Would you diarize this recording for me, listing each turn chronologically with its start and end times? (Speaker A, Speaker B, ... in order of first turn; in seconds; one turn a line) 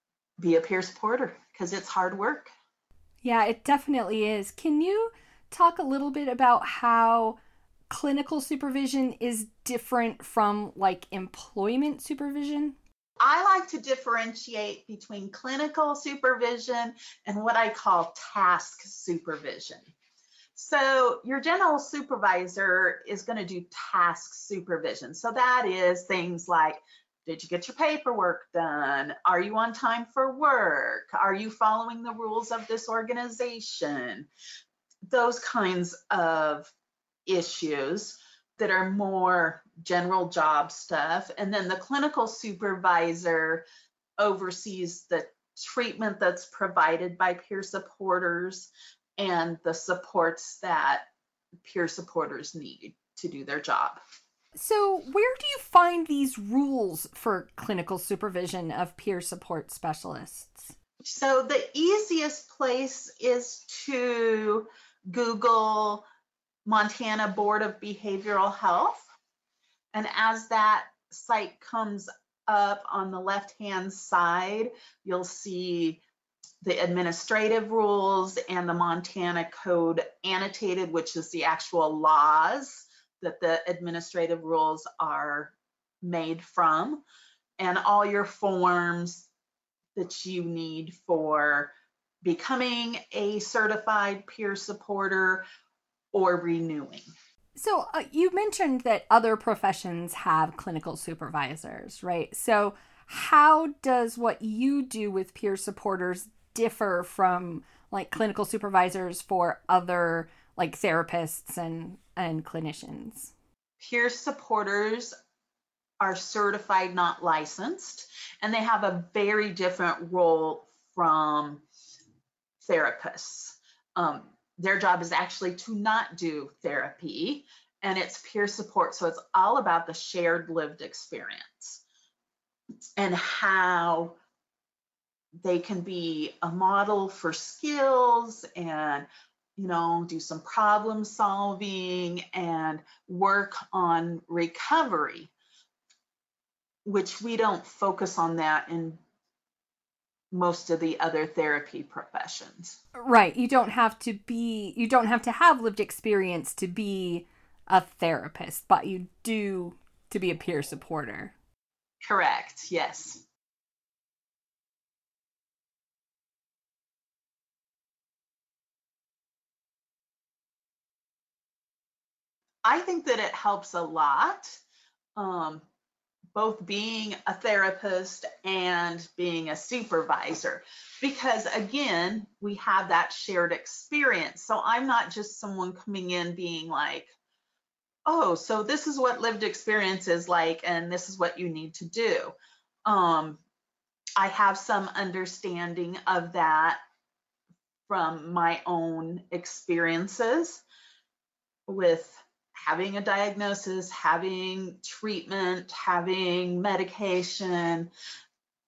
Speaker A: 0.4-2.5
Speaker B: 3.2-7.4
Speaker B: 7.9-12.8
Speaker A: 13.2-19.9
Speaker A: 20.6-34.3
Speaker A: 35.1-36.7
Speaker A: 37.3-43.7
Speaker A: 44.2-51.1
Speaker A: 51.6-54.0
Speaker B: 54.6-60.7
Speaker A: 61.0-66.1
Speaker A: 66.7-69.1
Speaker A: 69.9-76.0
Speaker A: 76.6-87.0
Speaker A: 87.6-89.3
Speaker A: 90.0-95.5
Speaker A: 96.1-97.1
Speaker B: 97.6-113.3
Speaker A: 113.8-115.2
Speaker A: 116.0-121.6
Speaker A: 122.6-131.8
Speaker A: 133.0-134.2
Speaker A: 135.4-145.3
Speaker A: 146.8-149.0
Speaker A: 150.3-152.8
Speaker B: 153.0-161.3
Speaker A: 162.0-163.2
Speaker A: 172.6-174.6
Speaker A: 175.2-175.6
Speaker A: 176.3-187.1
Speaker A: 188.1-193.4
Speaker A: 194.2-196.8
Speaker A: 197.9-200.6
Speaker A: 201.7-207.9